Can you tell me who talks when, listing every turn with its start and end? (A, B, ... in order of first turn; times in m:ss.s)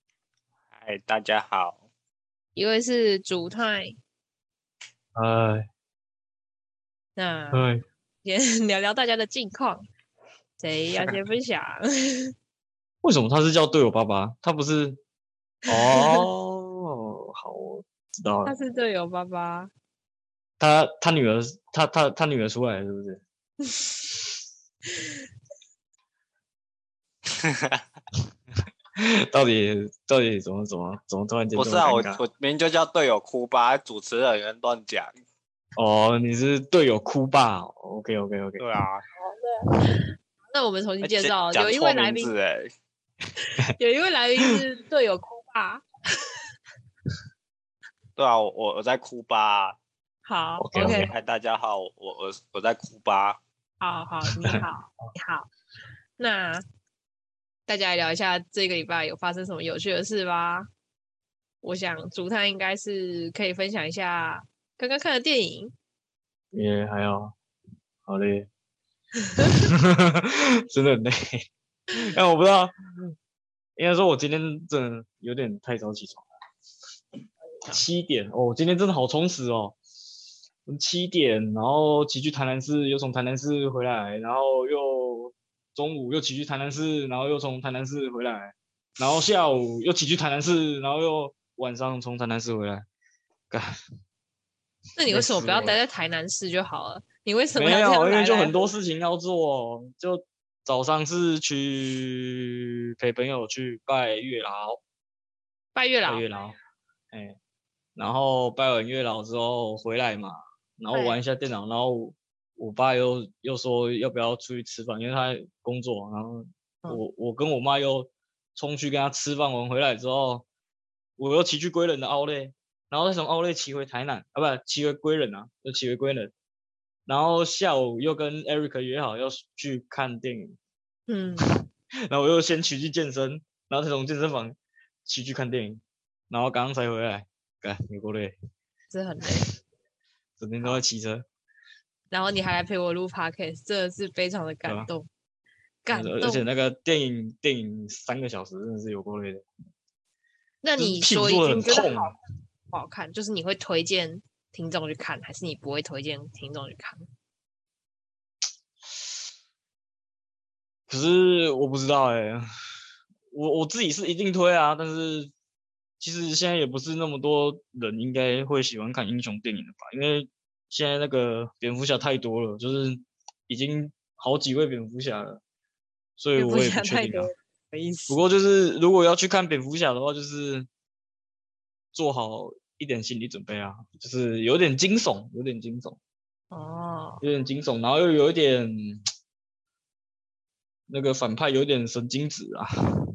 0:00.8-0:01.8 A
0:02.6-0:03.9 B
0:05.1-0:05.7 C
0:07.2-0:07.7 B
0:07.5-0:07.8 C
0:08.2-0:09.8 B
0:10.6-0:12.3 B
0:13.0-0:15.0 C
0:15.7-0:16.2 B
0:15.7-0:18.5 C
0:18.4-0:19.7 B
0:20.6-0:23.2 C
0:27.3-0:27.8 A
0:29.0-0:32.2 C
0:31.6-0:35.1 A
0:35.8-0:38.6 C
0:38.6-0:39.0 A
0:39.2-0:42.3 B
0:41.0-0:42.7 A
0:43.4-0:45.8 B
0:48.2-0:49.8 A
0:50.2-0:51.1 B
0:50.6-0:51.1 C
0:50.8-0:53.4 A
0:53.8-0:55.5 B
0:54.2-0:54.6 C
0:56.2-0:56.6 B
0:57.7-1:00.6 B
1:01.6-1:05.7 B
1:06.5-1:07.3 C
1:08.0-1:08.5 C
1:09.3-1:09.7 B
1:09.7-1:11.4 C
1:12.0-1:13.1 C
1:13.8-1:16.2 C
1:17.7-1:19.8 C
1:20.7-1:32.8 C
1:35.0-1:38.5 B
1:35.1-1:35.8 C
1:37.6-1:44.8 C
1:45.7-1:46.2 B
1:46.0-1:46.5 C
1:47.1-1:47.4 C
1:48.0-2:00.4 C
1:50.9-1:51.2 B
2:01.2-2:06.3 C
2:07.1-2:10.6 C
2:11.1-2:11.6 B
2:11.4-2:18.3 C
2:18.9-2:19.5 B
2:20.4-2:21.2 C
2:22.1-2:25.1 B
2:24.6-2:24.9 C
2:25.8-2:26.4 B
2:25.9-2:29.4 C
2:30.6-2:32.1 B
2:30.8-2:32.1 C
2:32.7-2:37.0 B
2:40.9-2:42.4 C
2:43.3-2:45.3 C
2:46.0-2:55.4 C
2:56.2-2:57.3 C
2:56.4-2:58.2 B
2:58.1-3:00.7 C
3:01.9-3:06.0 C
3:06.5-3:07.2 B
3:07.2-3:09.0 C
3:10.9-3:12.7 C